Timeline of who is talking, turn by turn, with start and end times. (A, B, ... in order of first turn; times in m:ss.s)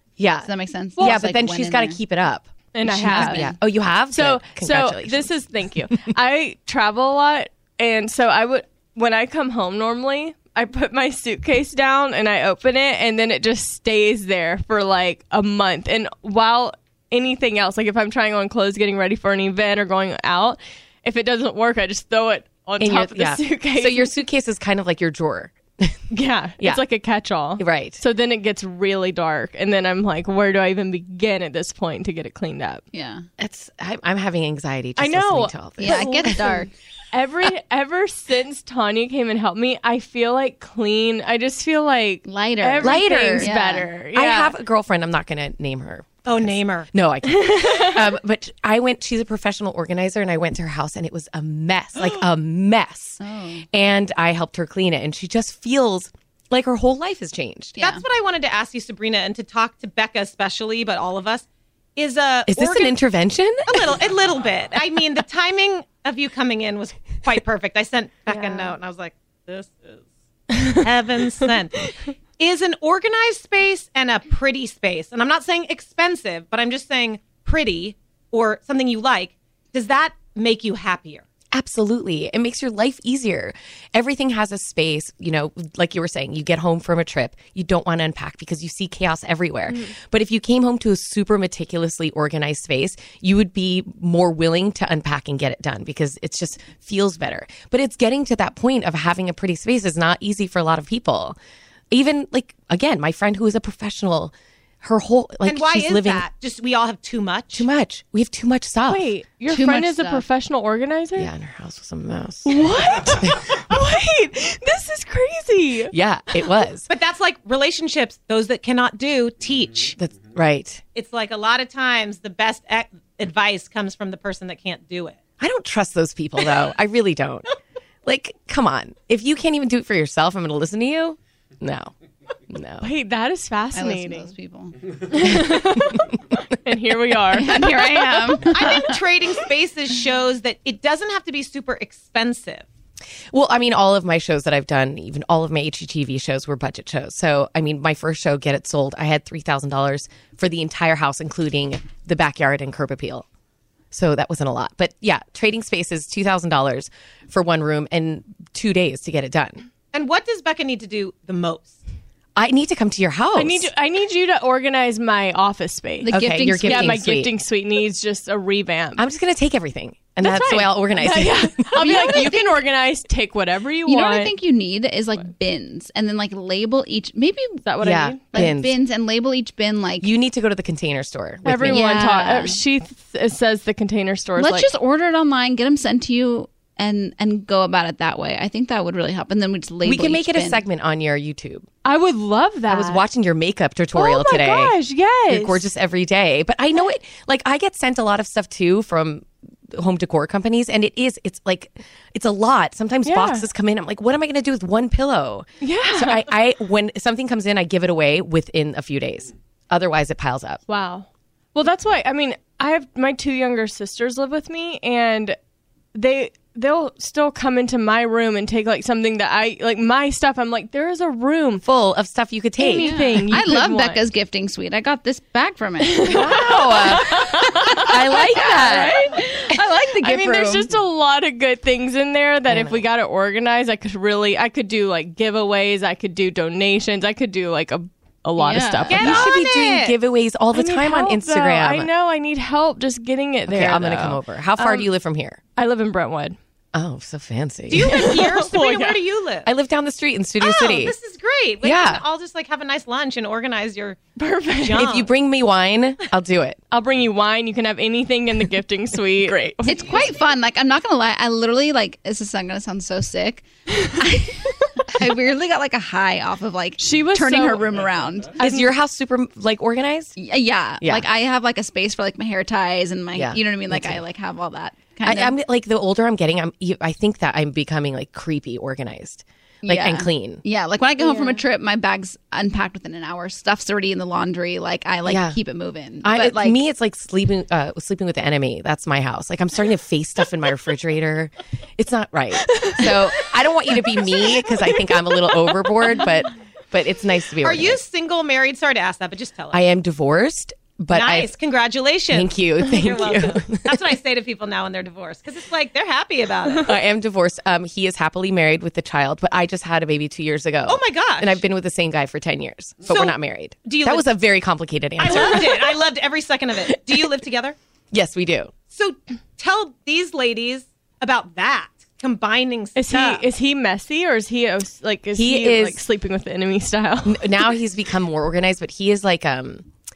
0:00.2-0:05.4 A
0:00.4-0:02.0 B
0:01.0-0:01.3 C
0:02.7-0:03.5 C
0:02.9-0:03.5 B
0:04.1-0:24.1 C
0:22.8-0:26.0 A
0:26.1-0:32.8 C
0:27.6-0:28.0 A
0:32.9-0:33.2 B
0:33.4-0:36.5 A
0:35.0-0:44.6 C
0:35.8-0:36.7 B
0:42.2-0:43.9 B
0:42.8-0:43.6 A
0:44.1-0:53.2 A
0:46.3-0:46.9 D
0:47.3-0:48.1 C
0:53.2-0:53.6 B
0:53.7-0:57.8 A
0:57.8-0:58.0 B
0:57.8-1:01.4 D
1:02.0-1:03.0 D
1:02.5-1:03.9 A
1:03.7-1:21.2 D
1:08.3-1:08.7 C
1:21.5-1:41.4 A
1:29.7-1:29.9 C
1:41.9-1:46.3 A
1:45.4-1:47.7 D
1:47.5-1:49.1 A
1:48.9-1:51.3 C
1:49.5-1:50.2 B
1:51.2-1:52.7 A
1:52.4-1:55.9 C
1:55.9-1:56.9 A
1:56.9-2:00.0 D
2:00.0-2:00.8 A
2:01.0-2:05.2 D
2:05.4-2:07.5 A
2:08.0-2:11.9 A
2:12.5-2:12.9 A
2:12.8-2:14.3 C
2:13.7-2:14.8 B
2:15.1-2:18.5 C
2:15.3-2:15.9 A
2:17.3-2:19.0 B
2:18.4-2:22.6 D
2:23.3-2:33.3 A
2:33.9-2:39.7 A
2:39.9-2:41.8 D
2:42.4-2:43.7 A
2:43.4-2:49.0 C
2:46.0-2:47.0 B
2:46.1-2:47.3 A
2:49.0-2:52.5 A
2:50.2-2:54.3 C
2:51.8-2:52.4 B
2:53.9-2:57.6 B
2:57.6-2:58.3 C
2:57.8-2:58.8 A
2:58.3-3:00.1 B
3:00.0-3:01.9 A
3:01.5-3:04.7 C
3:01.6-3:02.6 B
3:04.4-3:10.6 B
3:09.8-3:11.7 A
3:11.8-3:13.0 C
3:12.7-3:14.8 A
3:13.9-3:15.6 C
3:15.3-3:30.6 A
3:23.1-3:23.4 C
3:25.6-3:26.3 C
3:30.7-3:35.4 C
3:35.9-3:41.6 C
3:41.6-3:43.0 A
3:42.6-3:44.0 C
3:42.6-3:50.7 B
3:45.8-3:49.5 C
3:46.1-3:47.2 A
3:47.8-3:49.0 A
3:50.0-3:59.3 C
3:52.5-3:52.8 A
3:58.4-3:59.2 B
3:58.9-4:00.0 D
3:59.0-4:01.9 A
4:00.5-4:04.9 C
4:03.5-4:05.4 A
4:05.6-4:06.4 C
4:06.7-4:08.1 A
4:07.7-4:09.5 D
4:07.8-4:09.0 C
4:09.4-4:11.0 A
4:10.4-4:14.0 D
4:11.6-4:12.0 A
4:14.2-4:14.9 C
4:14.6-4:15.1 D
4:14.7-4:16.6 A
4:16.7-4:20.0 C
4:19.6-4:28.4 B
4:26.8-4:27.9 C
4:28.4-4:28.7 C
4:28.4-4:30.2 A
4:30.2-4:35.4 B
4:30.8-4:31.1 A
4:33.1-4:34.0 A
4:35.0-4:40.4 A
4:39.6-4:46.6 B
4:41.0-4:41.4 C
4:45.1-4:45.4 A
4:46.0-4:57.8 A
4:52.5-4:53.0 C
4:53.9-4:55.6 C
4:57.4-4:59.6 D
4:59.5-5:01.3 A
5:00.9-5:06.8 D
5:02.1-5:03.8 A
5:06.7-5:15.8 A
5:10.7-5:11.4 D
5:12.9-5:14.1 D
5:15.0-5:17.6 D
5:17.9-5:18.5 A
5:18.7-5:23.2 D
5:22.8-5:27.5 C
5:25.2-5:25.8 A
5:27.0-5:29.7 A